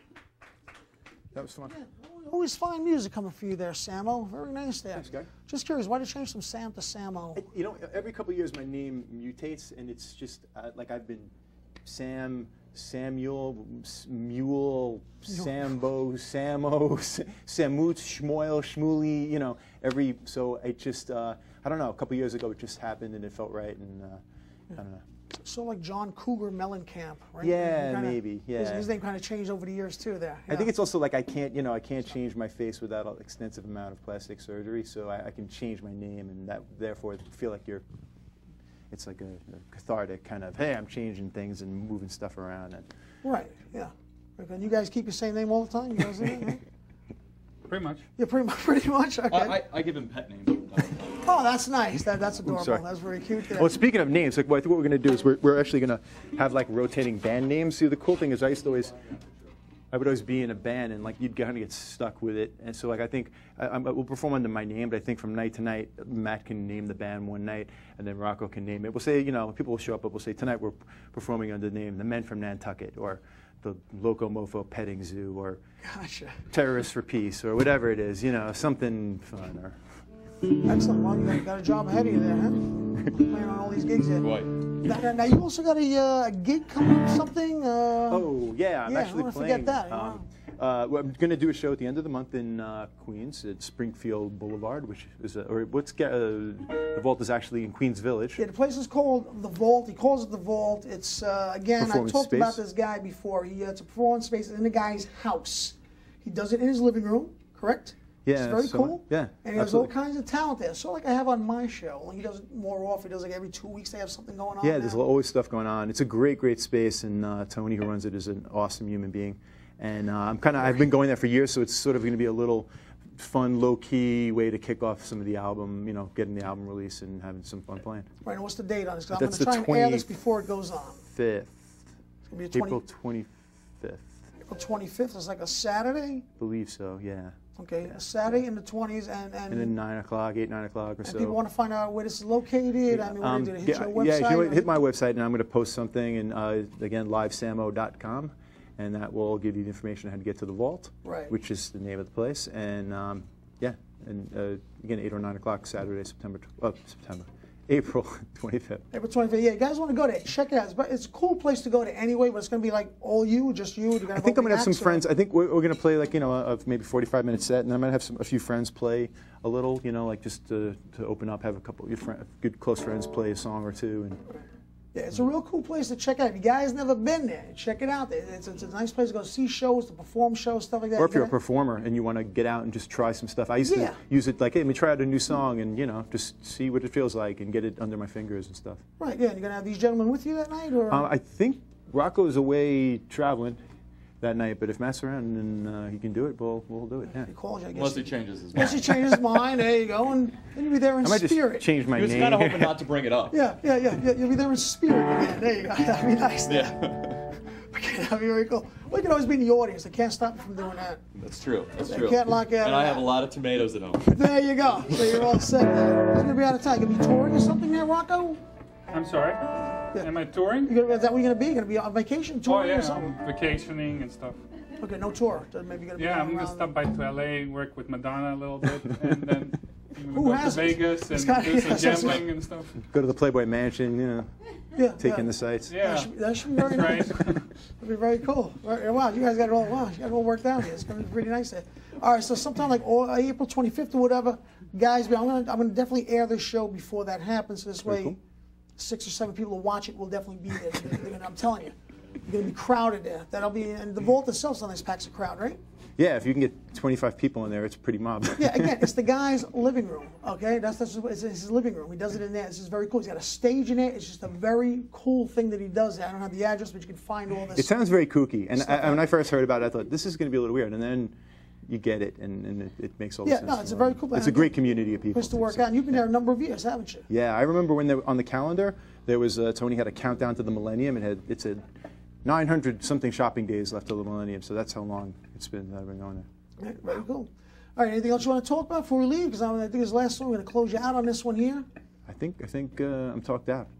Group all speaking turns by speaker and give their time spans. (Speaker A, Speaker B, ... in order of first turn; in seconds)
Speaker A: 1.3-1.8, 5.0-5.3, 7.3-11.3, 11.8-25.0, 27.4-28.9, 30.5-37.8, 38.9-42.9, 52.4-52.8, 53.5-59.2, 59.9-75.6, 76.5-79.8, 88.1-98.4, 101.8-102.6, 108.2-109.9, 114.6-128.1, 129.1-130.1, 131.1-131.9, 132.5-134.2, 136.4-137.3, 139.5-141.4, 142.9-158.8, 164.1-174.2, 181.0-188.8, 190.9-193.6, 194.2-197.3, 201.0-202.8, 232.8-234.3, 235.0-235.8, 247.8-248.2, 256.0-258.9, 267.5-271.1, 271.7-275.6, 277.1-281.6, 282.2-286.3, 292.1-293.7
Speaker B: 1.7-7.4, 25.4-30.7, 43.2-46.6, 48.2-49.6, 51.1-53.7, 75.8-76.4, 80.6-88.3, 88.9-90.3, 98.4-115.0, 128.2-131.0, 132.3-132.8, 134.4-136.3, 137.6-139.7, 141.1-144.7, 151.1-151.3, 158.9-165.1, 174.9-181.3, 183.6-184.0, 189.0-191.1, 197.2-201.7, 203.3-206.9, 207.5-211.0, 211.9-213.1, 214.1-218.4, 220.7-223.2, 224.8-226.7, 230.1-232.3, 234.7-237.2, 237.8-248.2, 248.8-255.6, 258.4-267.8, 268.6-269.0, 273.2-274.6, 275.1-277.1, 286.6-291.7
Speaker C: 47.7-48.0, 218.9-220.7, 222.5-224.4, 226.0-232.8, 235.7-237.5
Speaker D: 49.3-51.0, 84.2-84.5, 197.7-199.2, 201.9-203.4, 206.5-207.2, 211.2-214.4